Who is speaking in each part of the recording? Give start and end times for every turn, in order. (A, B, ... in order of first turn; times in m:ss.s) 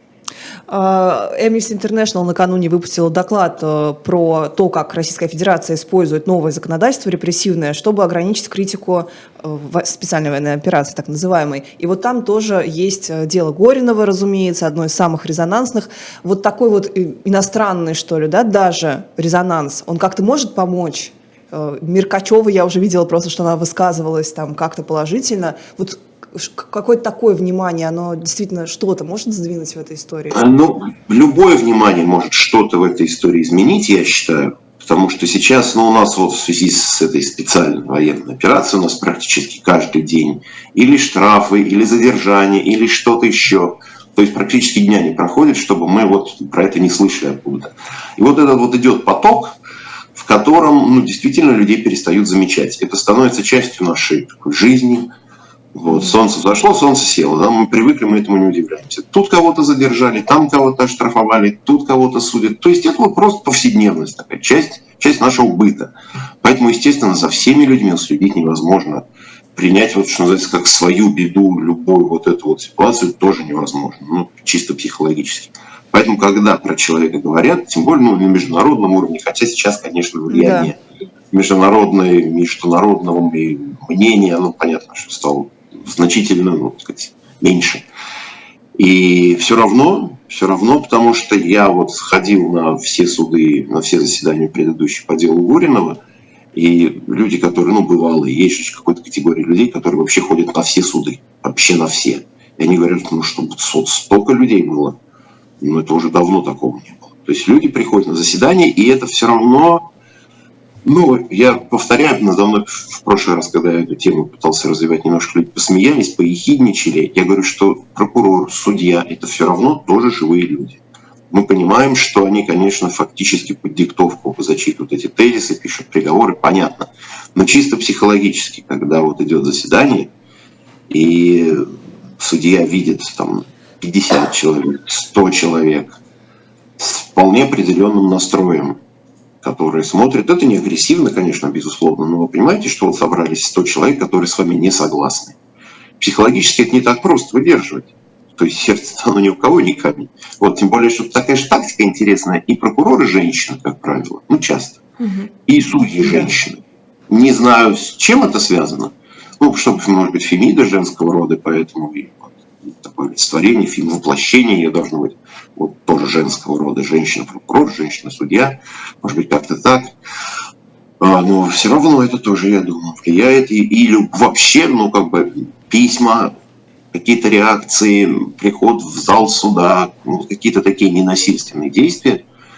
0:00.7-0:30.4 A
0:30.3-0:49.6 B
0:50.1-0:55.1 B
0:55.7-1:20.8 B
1:20.3-1:20.7 A
1:21.3-1:27.8 B
1:28.8-1:36.0 B
1:36.5-1:45.0 B
1:45.6-1:49.9 B
1:50.8-2:10.1 B
2:10.9-2:11.6 B
2:12.2-2:16.0 B
2:16.8-2:18.8 B
2:19.4-2:25.4 B
2:26.0-2:34.8 B
2:35.0-2:35.3 A
2:35.5-2:49.9 B
2:36.0-2:36.3 A
2:51.0-2:56.3 B
2:56.9-3:02.2 B